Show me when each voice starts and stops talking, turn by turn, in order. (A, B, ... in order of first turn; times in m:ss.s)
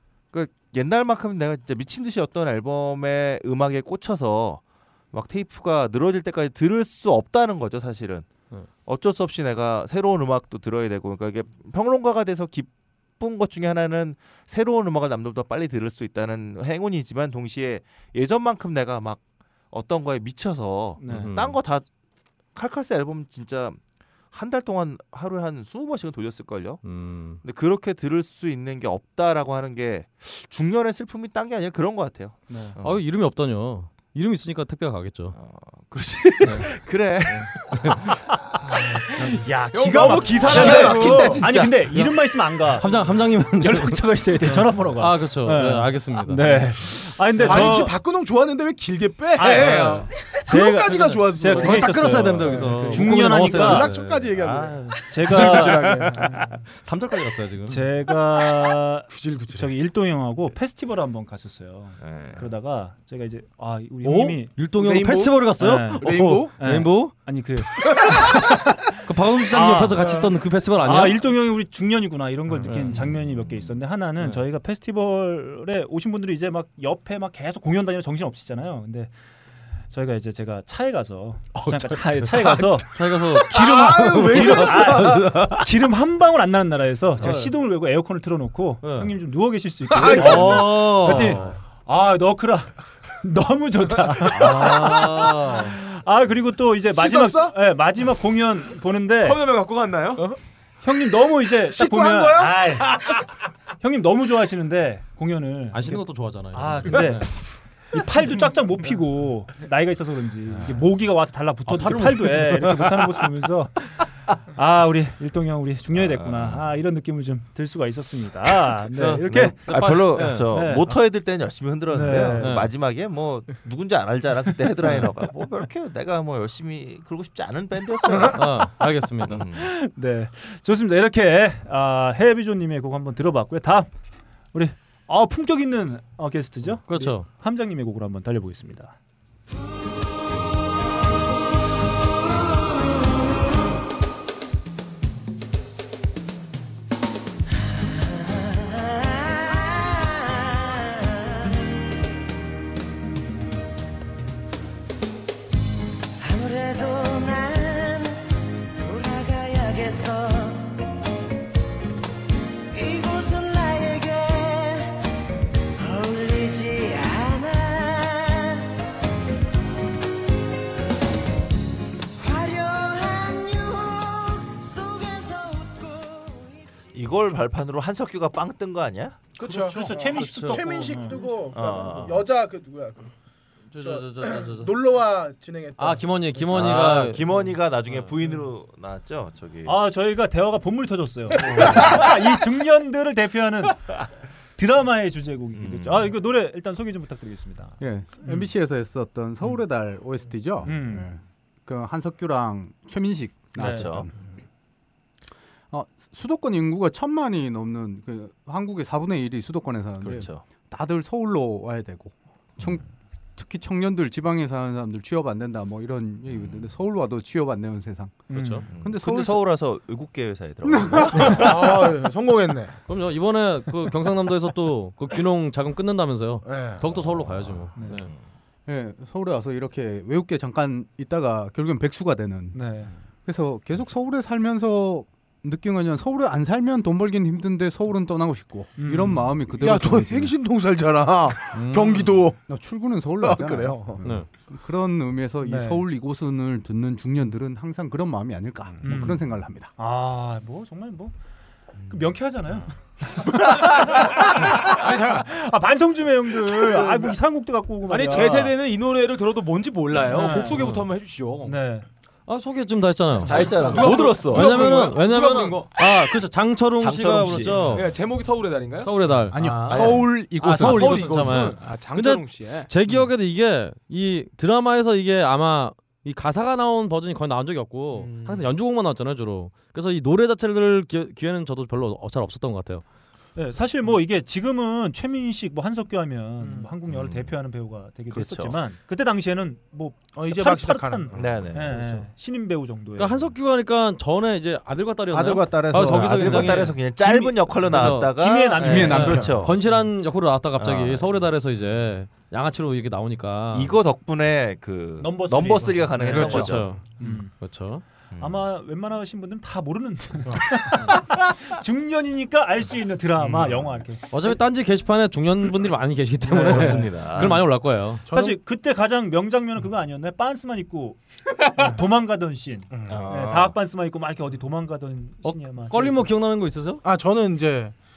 0:00.3-0:08.3 A
0:08.8-0:21.8 A
0:21.0-0:21.3 B
0:21.0-0:21.6 C
0:22.5-0:23.8 A
0:24.3-0:26.8 A
0:26.8-0:27.4 C
0:27.4-0:33.0 A
0:32.5-0:32.8 B
0:32.8-0:35.4 C
0:35.3-0:38.2 A
0:36.4-0:36.7 C
0:37.6-0:38.0 C
0:38.7-0:39.3 A
0:39.1-0:43.0 B
0:39.7-0:41.6 D
0:40.6-0:41.4 E
0:40.6-0:40.9 C
0:41.3-0:41.7 A
0:42.7-0:47.8 C
0:43.6-0:47.9 B
0:47.4-0:56.4 E
0:49.4-0:53.9 B
0:51.4-0:57.8 C
0:55.0-0:56.4 B
0:57.6-1:04.5 B
0:59.1-0:59.7 E
1:02.0-1:02.5 A
1:04.0-1:07.2 C
1:04.7-1:06.5 E
1:05.6-1:08.3 B
1:07.8-1:08.3 E
1:09.0-1:11.3 C
1:09.5-1:10.2 B
1:10.8-1:19.1 B
1:12.7-1:13.2 C
1:19.9-1:39.4 B
1:22.8-1:25.5 C
1:23.3-1:25.5 E
1:27.2-1:27.5 C
1:28.8-1:29.1 C
1:29.9-1:30.6 E
1:29.9-1:31.5 C
1:34.3-1:35.7 C
1:36.9-1:37.6 E
1:39.2-1:40.2 D
1:40.8-1:43.2 B
1:41.7-1:43.2 E
1:43.8-2:00.9 B
1:45.7-1:47.4 C
1:51.7-1:53.1 C
1:56.0-1:56.6 A
1:58.9-2:00.5 C
1:59.3-2:08.6 A
2:01.9-2:02.6 B
2:02.2-2:02.7 C
2:08.3-2:09.4 C
2:09.2-2:09.7 A
2:09.5-2:13.9 B
2:14.5-2:19.0 B
2:16.8-2:17.2 C
2:29.5-2:30.4 F
2:36.2-2:38.2 F
2:38.8-2:40.6 F
2:42.7-2:44.9 F
2:45.8-2:48.3 F
2:52.2-2:56.5 F
2:56.9-2:59.2 A
2:59.4-3:03.1 E
2:59.4-3:01.2 B
3:00.0-3:00.9 C
3:01.5-3:02.2 A
3:03.7-3:04.7 C
3:03.8-3:06.5 E
3:05.8-3:07.2 C
3:06.5-3:09.8 A
3:09.6-3:13.9 B
3:11.5-3:12.0 A
3:14.6-3:18.5 B
3:15.5-3:16.1 A
3:17.8-3:24.1 G
3:20.6-3:21.1 B
3:23.6-3:23.9 B
3:23.6-3:24.1 A
3:25.7-3:39.5 G
3:30.0-3:30.4 A
3:36.3-3:36.7 A
3:38.3-3:38.6 B
3:38.3-3:38.6 C
3:38.7-3:41.7 A
3:40.6-3:41.4 G
3:41.2-3:42.8 E
3:42.9-3:48.1 C
3:46.4-3:47.0 E
3:47.6-3:48.1 A
3:47.7-3:48.0 B
3:48.6-4:00.3 G
3:52.5-3:52.9 B
3:58.8-3:59.4 B
3:59.5-4:02.4 E
4:01.5-4:02.2 C
4:02.5-4:09.7 G
4:03.2-4:04.0 E
4:05.4-4:05.8 B
4:08.8-4:09.2 B
4:09.8-4:11.1 B
4:11.9-4:18.5 B
4:17.9-4:21.6 D
4:20.1-4:20.7 B
4:20.5-4:20.8 C
4:21.4-4:21.8 B
4:22.3-4:27.9 C
4:23.2-4:24.7 A
4:23.3-4:25.8 D
4:26.8-4:27.8 A
4:27.6-4:32.7 D
4:28.8-4:42.8 C
4:29.3-4:31.4 G
4:29.7-4:30.0 A
4:43.4-4:53.2 B
4:46.4-4:46.7 E
4:46.9-4:47.3 A
4:48.1-4:48.6 A
4:50.1-4:51.4 E
4:51.1-4:52.0 A
4:53.0-4:58.1 C
4:55.1-4:56.6 G
4:55.7-4:59.6 A
4:58.0-4:59.4 B
4:58.6-4:59.5 G
4:58.7-5:03.8 C
5:00.6-5:01.3 A
5:03.5-5:06.8 A
5:05.0-5:07.3 B
5:06.0-5:06.5 G
5:06.1-5:07.8 C
5:08.1-5:08.4 A
5:08.2-5:14.0 B
5:10.3-5:10.6 E
5:13.2-5:13.7 A
5:14.1-5:18.0 C
5:16.3-5:17.4 B
5:16.4-5:17.4 A
5:18.0-5:18.4 E
5:18.1-5:26.1 B
5:22.7-5:23.0 E
5:22.9-5:23.5 A
5:25.2-5:26.8 C
5:26.8-5:27.7 E